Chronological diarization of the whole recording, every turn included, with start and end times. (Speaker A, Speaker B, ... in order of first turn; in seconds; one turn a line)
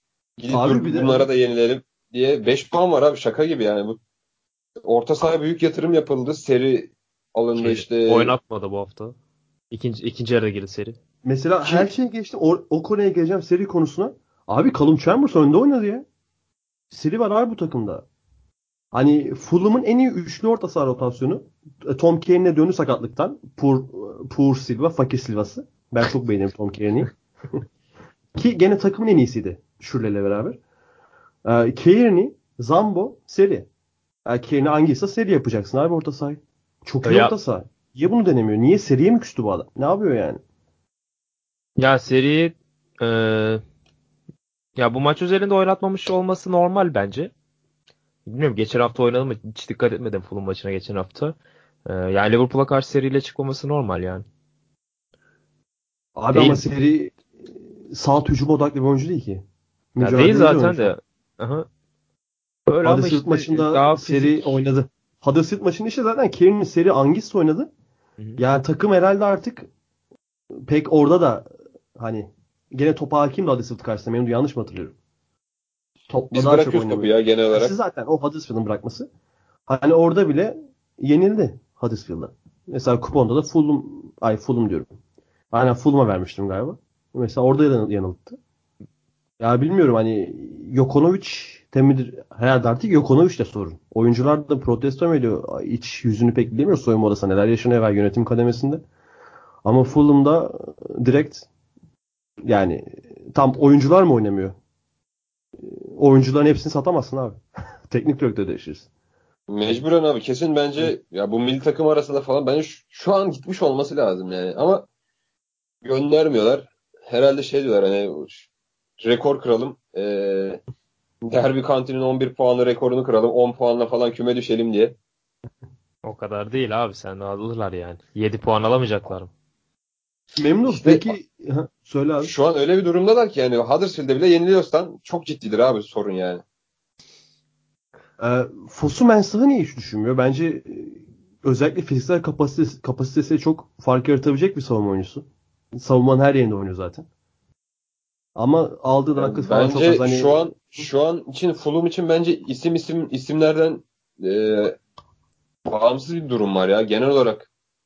Speaker A: 0.4-4.0
Speaker B: 0.5-1.3
Speaker A: 4.8-8.3
Speaker C: 7.5-9.2
Speaker C: 9.7-11.0
Speaker B: 11.2-16.1
Speaker A: 11.6-11.9
Speaker B: 16.9-18.1
Speaker B: 18.9-27.1
Speaker B: 28.4-30.6
Speaker B: 31.4-33.7
Speaker B: 34.3-40.4
Speaker C: 37.0-37.3
Speaker C: 41.8-43.6
Speaker C: 44.8-47.3
Speaker C: 48.3-54.2
Speaker B: 56.2-57.2
Speaker C: 56.3-56.6
Speaker B: 57.9-59.4
Speaker B: 60.0-60.9
Speaker C: 60.0-61.7
Speaker C: 62.7-64.6
Speaker B: 62.8-67.7
Speaker B: 68.4-69.7
Speaker B: 70.7-74.9
Speaker B: 76.1-79.1
Speaker A: 76.3-77.7
Speaker B: 79.7-84.9
Speaker B: 85.5-88.4
Speaker B: 89.4-98.8
Speaker B: 99.7-101.5
Speaker B: 102.5-104.5
Speaker B: 105.6-108.9
Speaker A: 109.5-114.9
Speaker A: 115.8-118.5
Speaker A: 119.0-120.6
Speaker A: 121.2-125.0
Speaker C: 126.0-129.3
Speaker B: 130.4-132.3
Speaker A: 130.7-131.1
Speaker A: 132.2-136.4
Speaker B: 138.2-145.3
Speaker B: 145.8-147.1
Speaker B: 148.4-150.4
Speaker A: 149.2-154.8
Speaker A: 155.7-157.5